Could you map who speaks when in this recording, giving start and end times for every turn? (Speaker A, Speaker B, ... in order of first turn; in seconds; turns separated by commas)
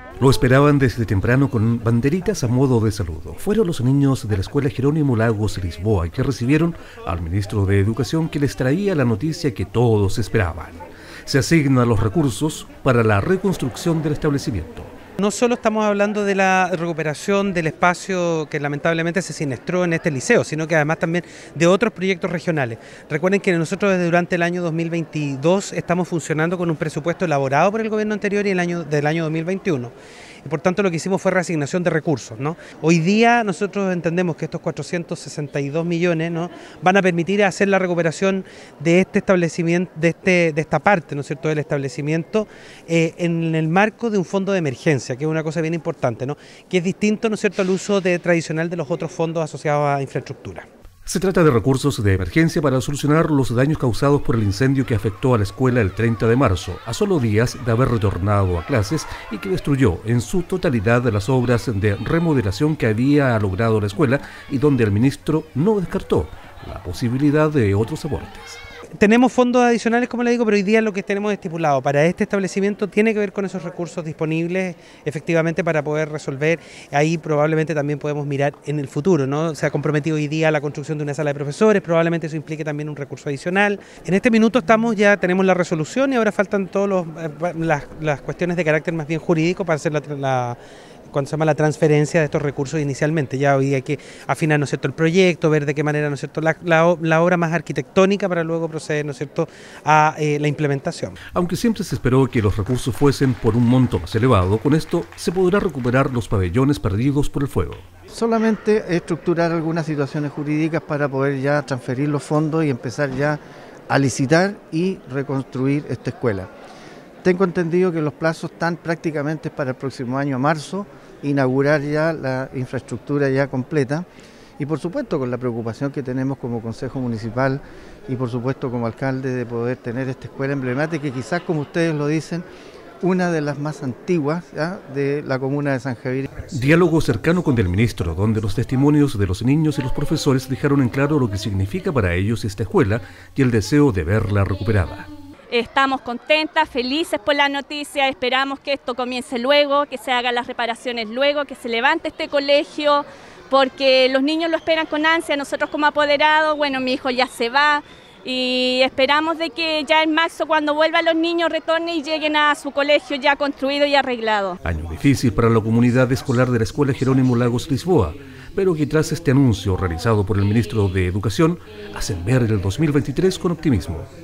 Speaker A: 0.2-14.9, Speaker B: 15.2-29.9, Speaker B: 30.4-50.7, Speaker A: 51.1-68.6, Speaker B: 69.0-90.6, Speaker B: 91.1-101.2, Speaker A: 101.3-107.9, Speaker C: 108.1-116.5, Speaker C: 117.2-124.1, Speaker C: 124.6-132.4, Speaker C: 133.0-136.3, Speaker A: 136.5-145.1, Speaker D: 145.5-164.6, Speaker A: 164.6-174.1